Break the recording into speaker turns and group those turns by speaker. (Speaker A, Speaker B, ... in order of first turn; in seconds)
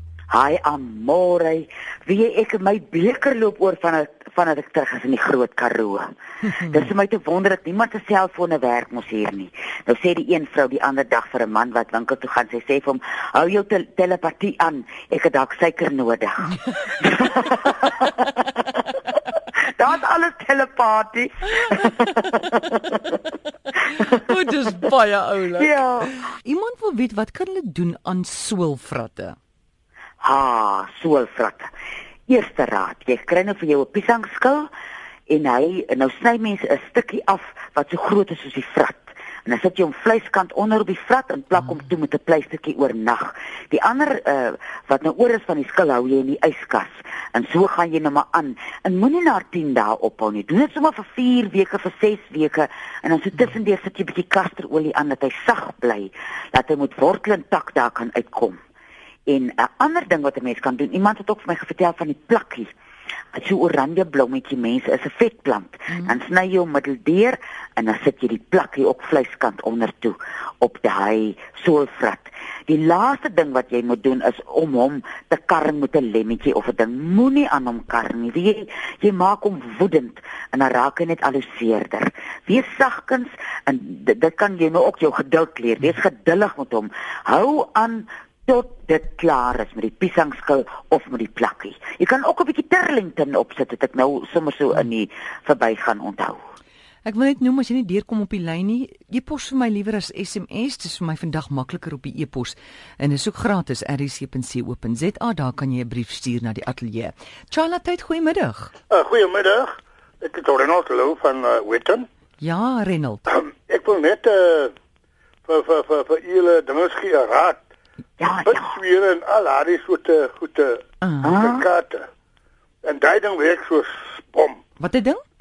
Speaker A: 0.3-6.1, 6.6-18.0, 19.6-23.0, 25.6-26.1, 30.2-31.7, 32.3-34.7, 35.3-58.6, 59.3-62.7, 63.3-96.4, 118.2-118.8, 121.2-121.7
Speaker B: 23.8-29.4, 97.0-108.7, 112.4-113.2, 121.0-121.3, 124.8-125.2
Speaker C: 108.9-112.1, 113.3-114.7, 115.5-117.6, 118.3-120.8, 121.3-122.1, 122.8-124.6